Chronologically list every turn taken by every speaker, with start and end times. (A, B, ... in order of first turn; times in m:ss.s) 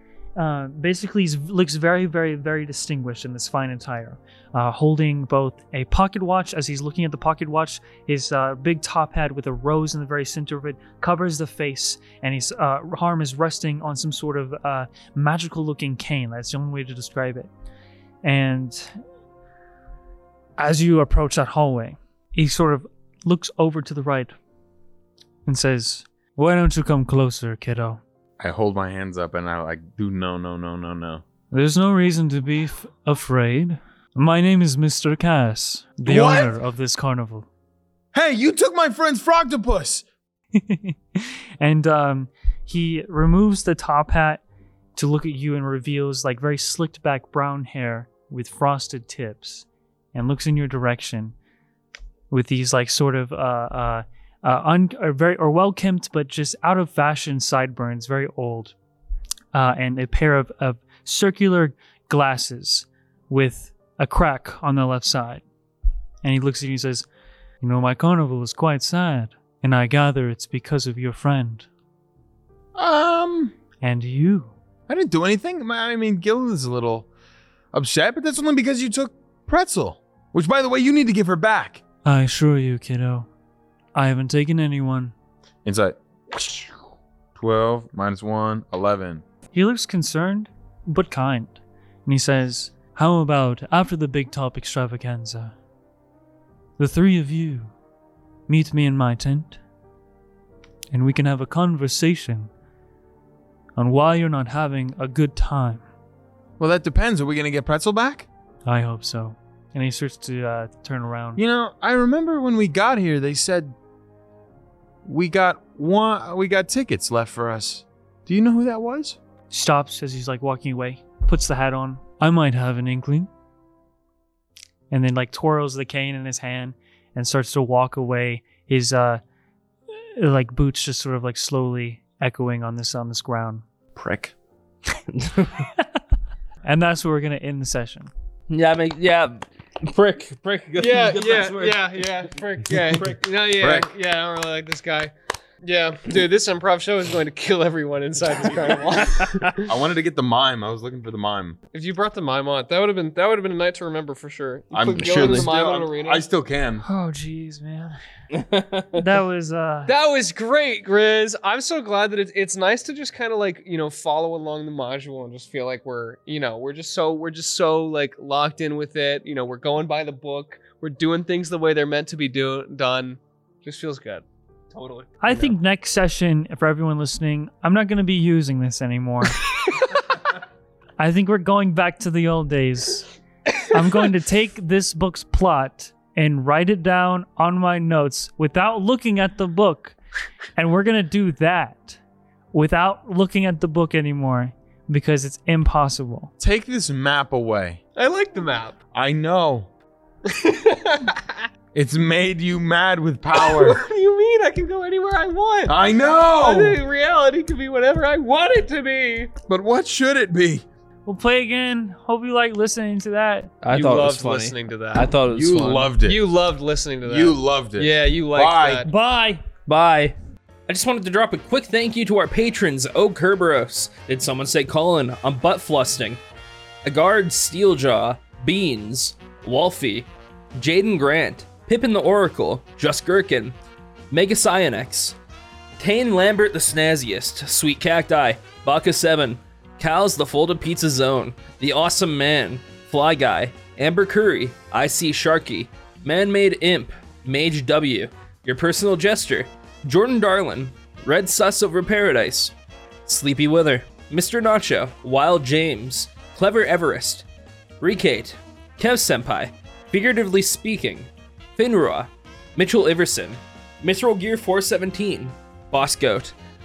0:00.4-0:17.5 A
0:18.2-0:19.0 A
0:20.6-0:24.4 A
0:25.5-0:28.0 A
0:28.4-0:31.2 B
0:31.5-0:37.5 A
0:36.1-0:36.6 B
0:38.1-0:40.0 B
0:40.6-0:44.4 A
0:45.0-0:51.4 A
0:52.3-0:58.8 A
0:59.5-1:05.4 A
1:06.2-1:07.1 A
1:07.6-1:11.7 A
1:12.8-1:13.5 B
1:13.8-1:14.5 A
1:14.9-1:17.1 B
1:17.7-1:21.8 B
1:22.0-1:23.3 A
1:24.0-1:25.1 A
1:25.6-1:26.7 B
1:27.4-1:29.2 B
1:29.5-1:35.5 A
1:36.8-1:37.7 A
1:38.5-1:39.6 A
1:40.9-1:42.5 A
1:43.8-1:45.8 A
1:46.6-1:48.3 B
1:48.6-1:51.4 A
1:51.4-1:53.8 B
1:55.0-1:59.2 B
1:59.5-2:03.3 A
2:04.9-2:09.2 A
2:10.2-2:13.6 A
2:14.0-2:14.3 B
2:15.2-2:15.6 C
2:16.6-2:18.1 A
2:18.5-2:22.0 C
2:20.8-2:25.1 D
2:23.6-2:23.9 B
2:25.6-2:29.6 D
2:28.9-2:29.6 C
2:29.6-2:31.6 B
2:31.7-2:36.2 D
2:34.7-2:36.8 B
2:35.0-2:35.5 C
2:36.8-2:38.0 A
2:38.3-2:39.0 C
2:38.9-2:39.9 A
2:39.9-2:54.2 D
2:54.7-2:55.5 C
2:55.2-2:59.4 A
3:01.0-3:03.1 A
3:03.7-3:10.0 A
3:10.6-3:12.0 A
3:12.5-3:16.3 A
3:16.4-3:17.8 B
3:18.0-3:18.8 D
3:18.9-3:19.7 B
3:20.2-3:21.4 D
3:21.7-3:23.8 B
3:23.3-3:29.3 D
3:25.7-3:26.8 B
3:29.5-3:30.6 B
3:31.1-3:33.6 A
3:33.6-3:35.9 C
3:33.7-3:35.2 D
3:35.3-3:36.3 B
3:35.8-3:38.9 D
3:37.1-3:38.8 B
3:38.9-3:39.4 A
3:39.7-3:40.2 C
3:40.7-3:46.2 C
3:46.8-3:53.6 C
3:54.1-3:55.2 C
3:55.8-4:12.5 C
4:13.1-4:17.3 C
4:17.8-4:26.4 C